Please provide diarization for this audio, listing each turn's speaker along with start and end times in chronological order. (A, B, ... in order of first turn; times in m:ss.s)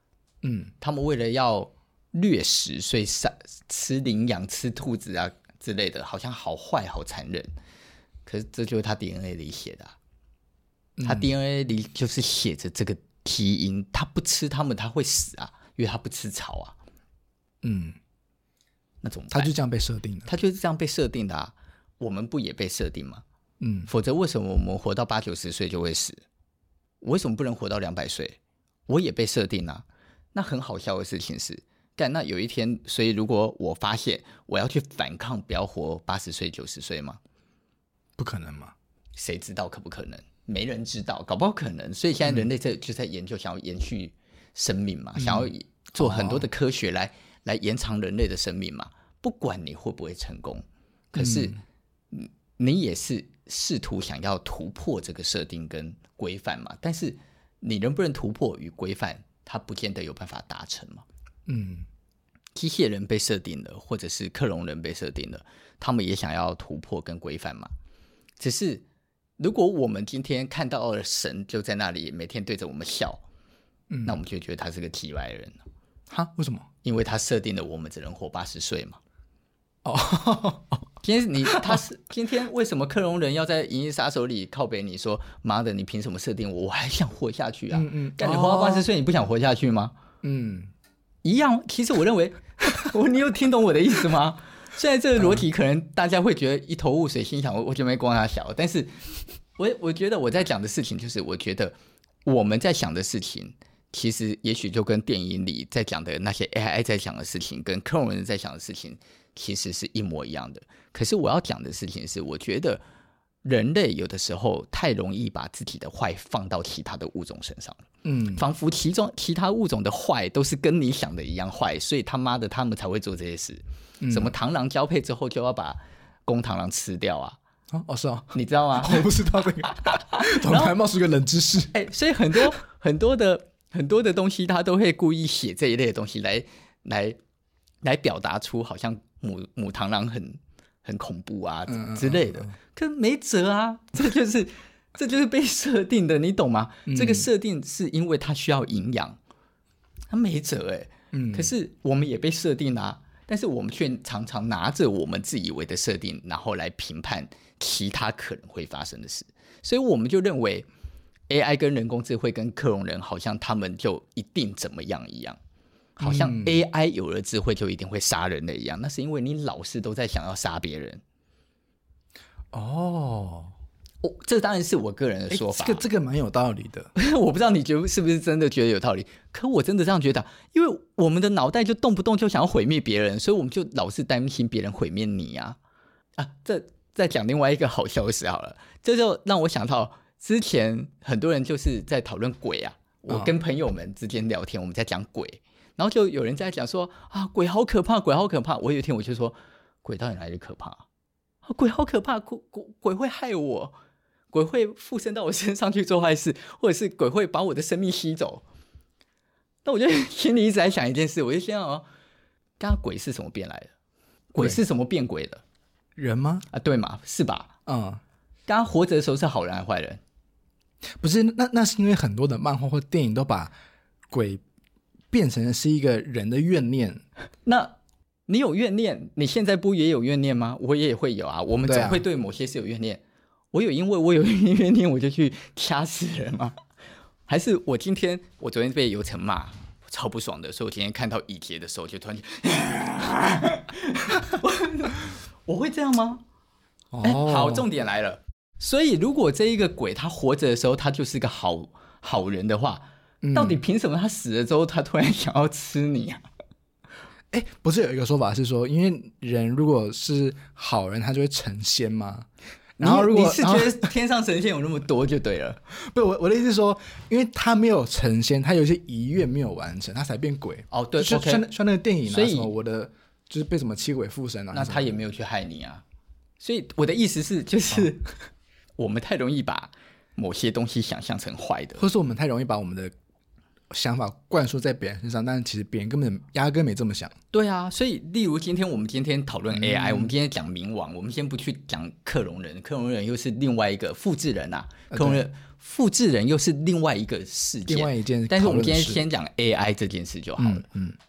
0:00.4-0:00.7 A
0:00.8-0:07.5 B
0:08.3-0:10.0 B
0:11.0-0:11.3 A
0:11.0-0:16.8 B
0:17.6-0:18.0 A
0:19.0-0:19.5 B
0:19.3-0:20.3 A
0:20.3-0:23.2 B
0:23.6-0:23.9 A
0:23.9-0:26.2 B
0:27.0-0:37.2 B
0:38.2-0:38.7 A
0:39.2-0:51.6 B
0:45.2-0:46.5 A
0:51.2-0:51.6 A
0:52.1-1:01.0 B
1:01.5-1:01.9 A
1:02.6-1:07.7 B
1:08.4-1:08.8 B
1:09.4-1:13.2 B
1:13.9-1:14.2 A
1:14.0-1:15.6 B
1:16.1-1:16.7 A
1:16.8-1:19.0 B
1:19.8-1:20.8 A
1:21.0-1:30.0 B
1:21.5-1:21.8 A
1:27.7-1:28.9 A
1:30.2-1:30.7 A
1:31.2-1:52.8 B
1:35.2-1:35.4 A
1:53.4-2:07.4 B
1:58.0-1:58.4 A
2:04.0-2:04.3 A
2:07.7-2:11.8 A
2:08.3-2:10.7 B
2:11.7-2:17.2 B
2:17.8-2:29.2 B
2:21.7-2:22.5 A
2:26.9-2:27.3 A
2:30.1-2:40.7 B
2:31.1-2:31.5 A
2:41.3-2:45.4 B
2:46.0-2:51.0 B
2:46.0-2:46.6 A
2:52.5-2:53.5 A
2:54.0-2:55.8 B
2:55.3-2:56.9 A
2:57.0-3:05.6 B
3:06.2-3:20.9 B
3:21.4-3:23.8 B
3:24.3-3:28.4 B
3:29.6-3:31.9 B
3:32.6-3:33.7 B
3:34.3-3:35.4 B
3:36.0-3:36.5 A
3:36.5-3:37.5 B
3:37.7-3:38.0 A
3:38.5-3:40.0 B
3:41.0-3:43.5 A
3:44.1-3:44.4 A
3:45.1-3:47.0 A
3:47.4-3:47.8 B
3:48.3-3:53.0 B
3:51.7-3:52.0 A
3:53.5-3:56.6 B
3:57.3-4:06.2 B
4:06.9-4:07.7 A
4:07.0-4:16.2 B
4:13.2-4:13.6 A
4:17.3-4:22.3 A
4:22.8-4:23.9 A
4:22.8-4:25.6 B
4:25.7-4:34.9 A
4:30.7-4:31.5 B
4:32.1-4:32.5 B
4:34.5-4:35.8 B
4:36.4-4:38.1 B
4:38.8-4:41.8 B
4:41.8-4:42.9 A
4:43.7-4:47.1 A
4:47.3-5:00.6 B
4:49.5-4:50.1 A
4:54.9-4:55.2 A
4:57.7-4:59.0 A
5:00.4-5:01.0 A